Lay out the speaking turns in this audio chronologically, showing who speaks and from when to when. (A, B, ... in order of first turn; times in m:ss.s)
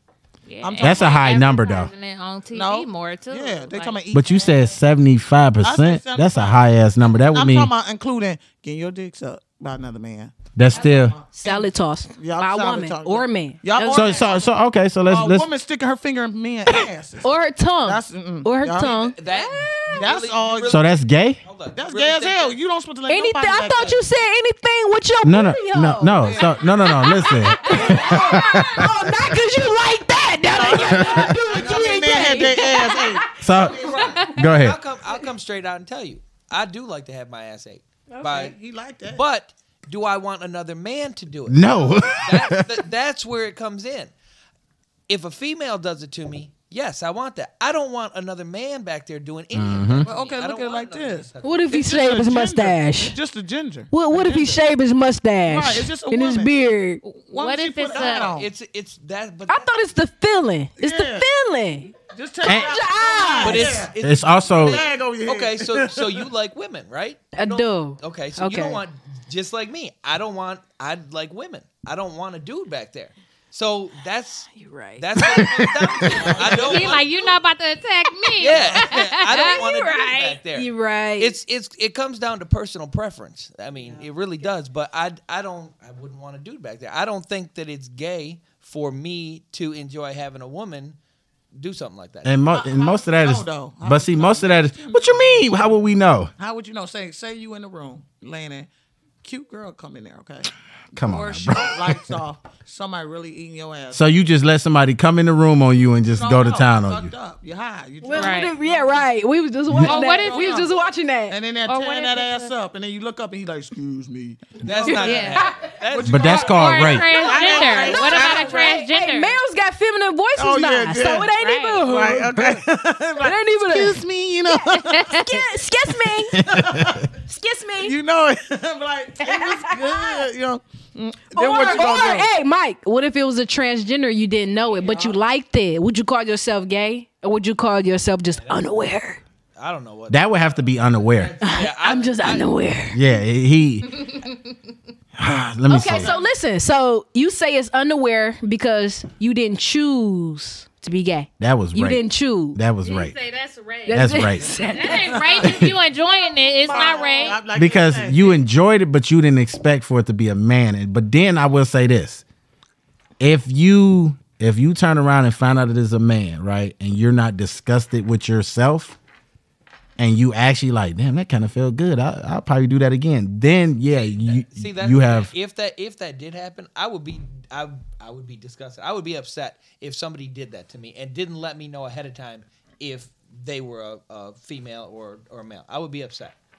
0:00.4-0:04.0 A
0:00.6-0:01.4 B
0:00.8-0:01.9 C
0:02.5-0:04.8 B
0:04.1-0:07.7 C
0:05.6-0:14.5 B
0:10.5-0:11.2 C
0:11.3-0:14.4 D
0:13.9-0:15.5 C
0:15.0-0:17.3 B
0:17.2-0:20.0 D
0:17.8-0:19.2 B
0:19.2-0:22.6 E
0:19.9-0:20.8 B
0:20.7-0:21.4 C
0:21.7-0:24.0 B
0:23.1-0:33.4 D
0:25.2-0:29.1 C
0:26.2-0:27.0 B
0:27.6-0:28.4 B
0:30.5-0:34.3 B
0:30.8-0:31.3 C
0:33.4-0:34.8 C
0:33.9-0:38.5 E
0:38.1-0:38.5 D
0:38.2-0:39.2 B
0:39.1-0:44.1 E
0:41.5-0:42.8 C
0:45.1-0:51.7 E
0:49.5-0:50.1 C
0:50.0-0:54.6 B
0:51.4-0:53.1 D
0:53.9-0:57.0 D
0:55.5-0:56.5 B
0:57.0-0:58.4 A
0:57.3-0:58.5 B
0:57.9-0:59.7 E
0:59.5-1:03.7 D
1:00.8-1:01.3 B
1:02.1-1:03.9 B
1:02.4-1:02.7 C
1:03.4-1:17.1 E
1:04.0-1:04.8 C
1:04.5-1:06.2 B
1:07.3-1:08.8 D
1:14.5-1:16.1 D
1:16.0-1:17.3 B
1:16.5-1:20.4 A
1:18.4-1:31.0 E
1:18.7-1:19.7 D
1:20.5-1:21.4 D
1:31.5-1:32.4 E
1:32.2-1:36.3 C
1:32.5-1:35.8 B
1:36.4-1:38.7 B
1:39.2-1:44.1 B
1:40.9-1:42.1 C
1:43.9-1:47.1 C
1:46.1-1:49.0 B
1:48.0-1:51.4 D
1:48.1-1:48.5 A
1:49.8-1:50.8 B
1:49.8-1:50.7 A
1:51.3-1:58.7 B
1:51.6-1:52.5 A
1:54.6-1:56.7 E
1:54.9-1:55.6 A
1:56.0-1:57.1 C
1:56.5-1:59.4 A
1:57.1-2:02.5 D
2:00.3-2:05.2 B
2:01.4-2:01.8 A
2:03.2-2:04.0 D
2:05.1-2:06.4 D
2:06.3-2:07.1 B
2:06.4-2:07.0 C
2:07.2-2:07.9 D
2:07.8-2:12.3 B
2:09.2-2:10.2 D
2:11.3-2:19.2 D
2:18.3-2:18.7 E
2:19.6-2:22.5 E
2:20.1-2:21.3 C
2:21.4-2:23.0 D
2:22.9-2:23.9 C
2:25.2-2:26.1 C
2:25.7-2:32.6 D
2:25.8-2:26.2 B
2:31.4-2:33.1 C
2:32.8-2:37.4 A
2:33.9-2:35.2 D
2:33.9-2:34.6 C
2:34.9-2:35.7 B
2:35.4-2:35.7 C
2:36.6-2:38.4 B
2:37.5-2:42.2 C
2:43.2-2:49.0 C
2:50.0-2:55.3 C
2:53.9-3:06.3 E